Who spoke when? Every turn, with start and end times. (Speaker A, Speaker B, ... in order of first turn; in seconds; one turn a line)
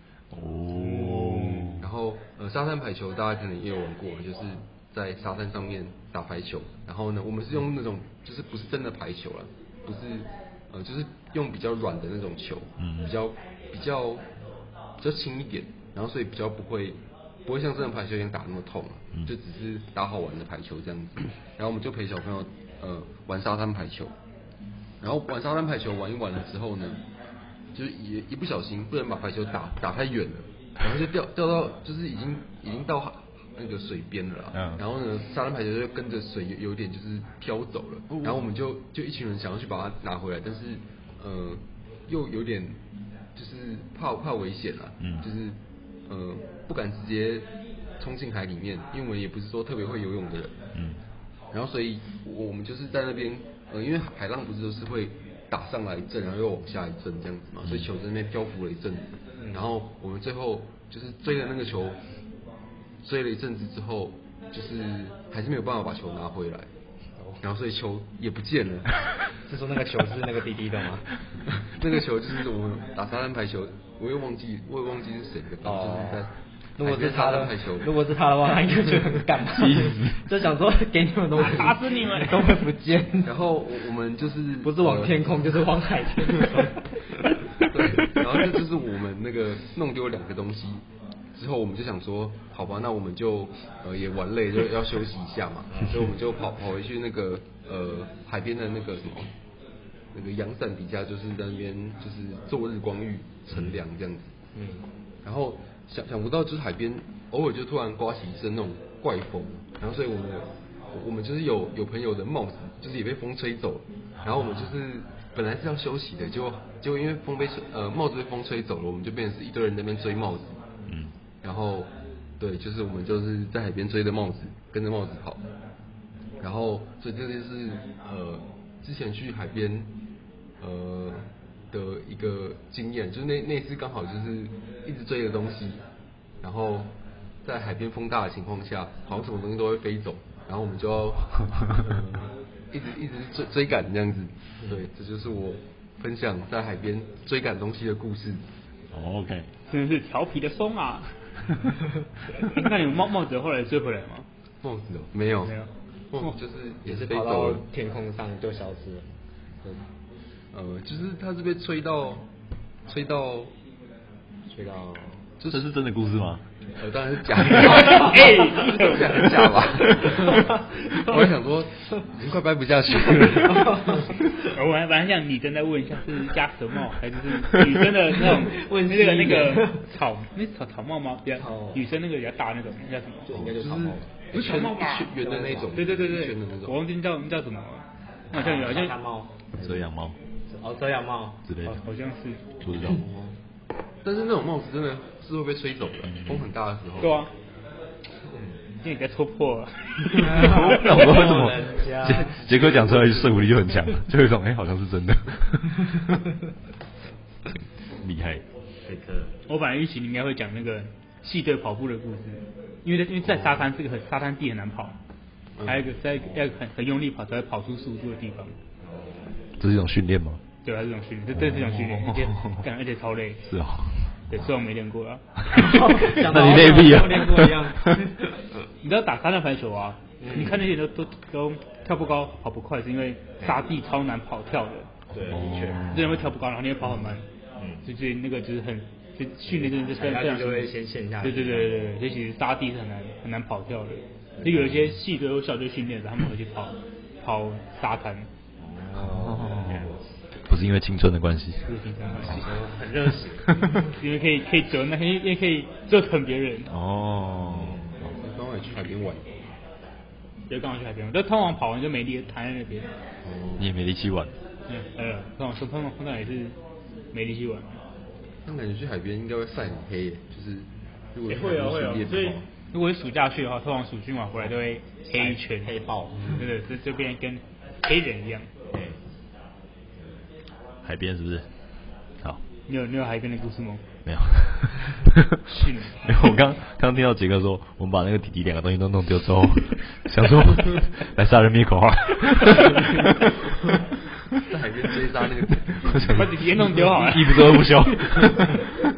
Speaker A: 0.3-1.9
Speaker B: 0.8-1.8
Speaker C: 1.8-14.2
Speaker A: 12.8-13.1
Speaker C: 15.0-24.1
Speaker C: 25.0-27.0
Speaker C: 27.7-42.8
Speaker A: 34.5-34.8
Speaker C: 43.4-47.5
Speaker A: 45.0-45.3
Speaker C: 48.0-50.6
Speaker A: 50.8-51.0
Speaker C: 51.5-62.0
Speaker D: 59.4-59.7
Speaker C: 63.0-66.7
Speaker C: 67.4-69.2
Speaker D: 69.5-71.2
Speaker C: 71.7-77.9
Speaker D: 75.6-76.3
Speaker D: 76.8-83.3
Speaker A: 79.6-80.1
Speaker B: 81.3-82.6
Speaker C: 83.2-85.4
Speaker D: 84.6-87.0
Speaker C: 87.6-90.8
Speaker C: 91.3-99.3
Speaker C: 100.1-104.4
Speaker D: 104.6-104.9
Speaker C: 105.2-120.6
Speaker C: 121.4-125.4
Speaker C: 126.4-129.9
Speaker C: 130.6-135.8
Speaker C: 136.4-148.4
Speaker A: 148.9-149.5
Speaker B: 149.7-151.6
Speaker B: 152.3-154.3
Speaker C: 154.6-155.6
Speaker B: 155.4-156.4
Speaker C: 156.1-157.7
Speaker D: 156.8-159.1
Speaker C: 160.5-162.3
Speaker C: 162.9-163.5
Speaker D: 164.5-165.2
Speaker A: 165.5-166.4
Speaker C: 166.8-174.1
Speaker B: 167.4-169.3
Speaker D: 173.5-174.1
Speaker B: 174.4-183.4
Speaker D: 178.2-179.8
Speaker D: 181.4-181.8
Speaker D: 183.3-184.1
Speaker C: 183.3-186.8
Speaker B: 184.3-185.2
Speaker D: 185.2-185.8
Speaker B: 185.7-188.9
Speaker D: 188.3-189.9
Speaker A: 189.6-190.2
Speaker D: 190.5-191.4
Speaker A: 191.5-191.8
Speaker B: 191.6-192.4
Speaker A: 192.6-193.0
Speaker C: 194.0-197.2
Speaker A: 196.2-196.4
Speaker B: 197.0-197.3
Speaker B: 198.8-200.9
Speaker D: 200.2-203.3
Speaker A: 200.4-206.0
Speaker A: 207.5-208.4
Speaker D: 208.9-209.3
Speaker B: 209.5-215.0
Speaker C: 213.3-213.6
Speaker C: 215.6-215.9
Speaker B: 215.7-218.6
Speaker D: 216.2-216.6
Speaker D: 218.8-219.4
Speaker A: 219.6-220.4
Speaker B: 220.6-223.5
Speaker A: 221.3-222.6
Speaker A: 223.4-224.1
Speaker B: 224.3-225.8
Speaker D: 225.5-228.1
Speaker A: 226.1-228.0
Speaker B: 228.8-234.9
Speaker D: 230.2-230.6
Speaker D: 235.1-235.9
Speaker A: 235.3-236.2
Speaker B: 235.9-237.3
Speaker D: 237.6-237.9
Speaker B: 237.8-248.3
Speaker D: 239.5-241.9
Speaker D: 244.4-244.9
Speaker D: 248.6-250.0
Speaker A: 249.0-249.9
Speaker A: 250.5-251.7
Speaker B: 251.6-252.5
Speaker D: 252.1-253.7
Speaker B: 253.9-256.7
Speaker A: 256.7-257.9
Speaker D: 257.6-257.9
Speaker C: 258.0-259.3
Speaker B: 260.5-262.9
Speaker A: 263.6-264.3
Speaker B: 264.7-266.6
Speaker B: 267.1-267.8
Speaker C: 268.4-272.4
Speaker B: 271.3-275.8
Speaker D: 275.1-276.4
Speaker C: 276.2-276.4
Speaker B: 276.3-278.5
Speaker D: 278.7-279.0
Speaker A: 280.8-281.5
Speaker B: 282.7-283.8
Speaker A: 284.1-285.1
Speaker B: 285.5-286.1
Speaker A: 286.1-293.1
Speaker C: 294.4-296.3
Speaker A: 296.0-298.7
Speaker B: 296.1-298.1